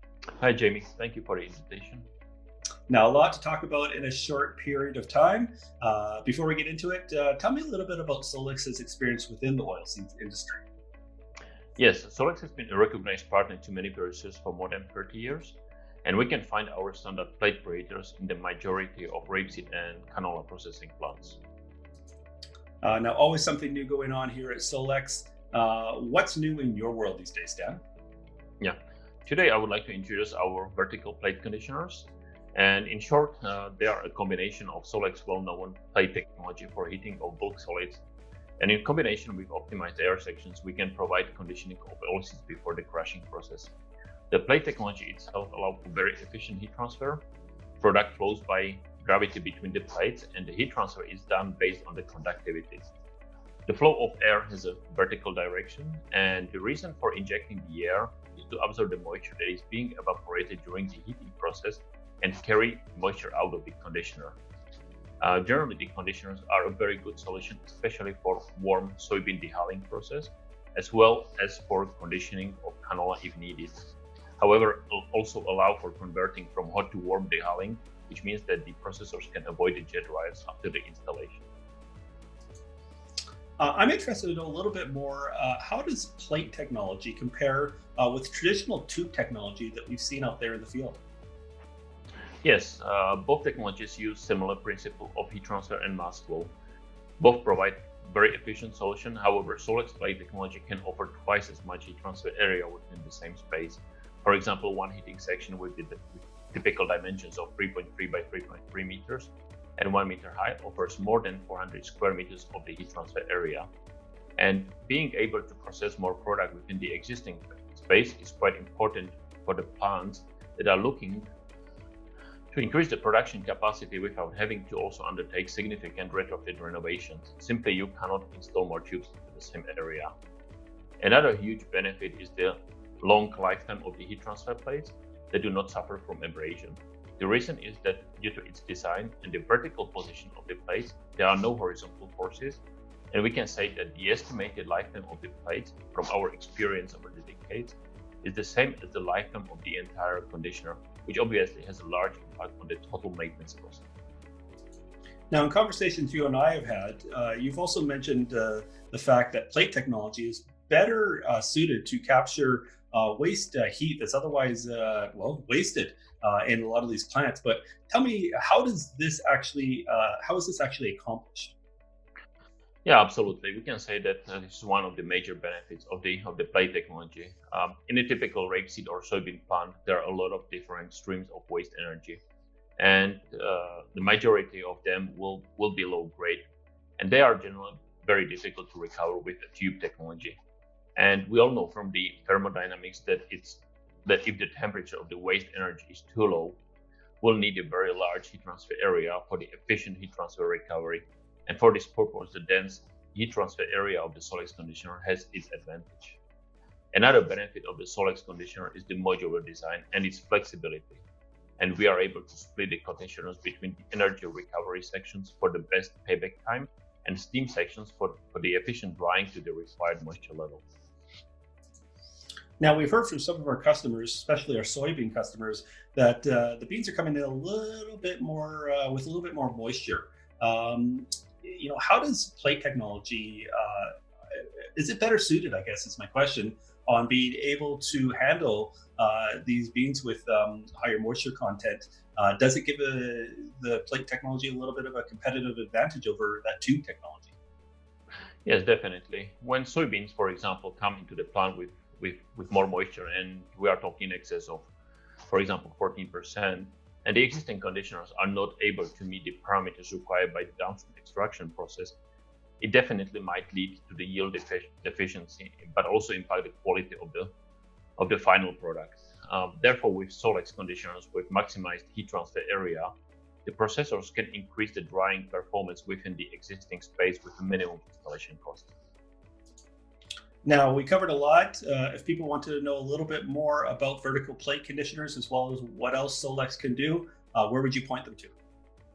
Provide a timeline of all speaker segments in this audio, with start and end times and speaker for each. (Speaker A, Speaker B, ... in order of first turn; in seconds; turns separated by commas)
Speaker A: 0.4-2.1, Speaker B: 2.9-10.6, Speaker A: 11.8-21.4, Speaker B: 22.8-27.8, Speaker A: 28.6-38.0, Speaker A: 38.6-43.7, Speaker A: 44.3-47.2, Speaker A: 47.8-52.8, Speaker A: 53.7-64.4, Speaker A: 65.2-73.7, Speaker A: 74.4-81.5, Speaker B: 83.6-91.0, Speaker A: 92.4-96.5, Speaker A: 97.2-113.7, Speaker A: 114.4-121.3, Speaker A: 122.5-130.1, Speaker A: 131.0-153.8, Speaker B: 155.3-171.6, Speaker A: 172.8-182.2, Speaker A: 182.8-186.4, Speaker A: 187.0-190.4, Speaker A: 191.0-196.6, Speaker A: 197.2-206.2, Speaker A: 206.9-211.0, Speaker A: 211.6-220.6, Speaker B: 222.6-233.9, Speaker B: 234.8-247.3, Speaker A: 248.4-254.7, Speaker A: 255.3-262.0, Speaker A: 262.6-267.3, Speaker A: 268.0-272.9, Speaker A: 273.4-278.7, Speaker B: 280.4-288.3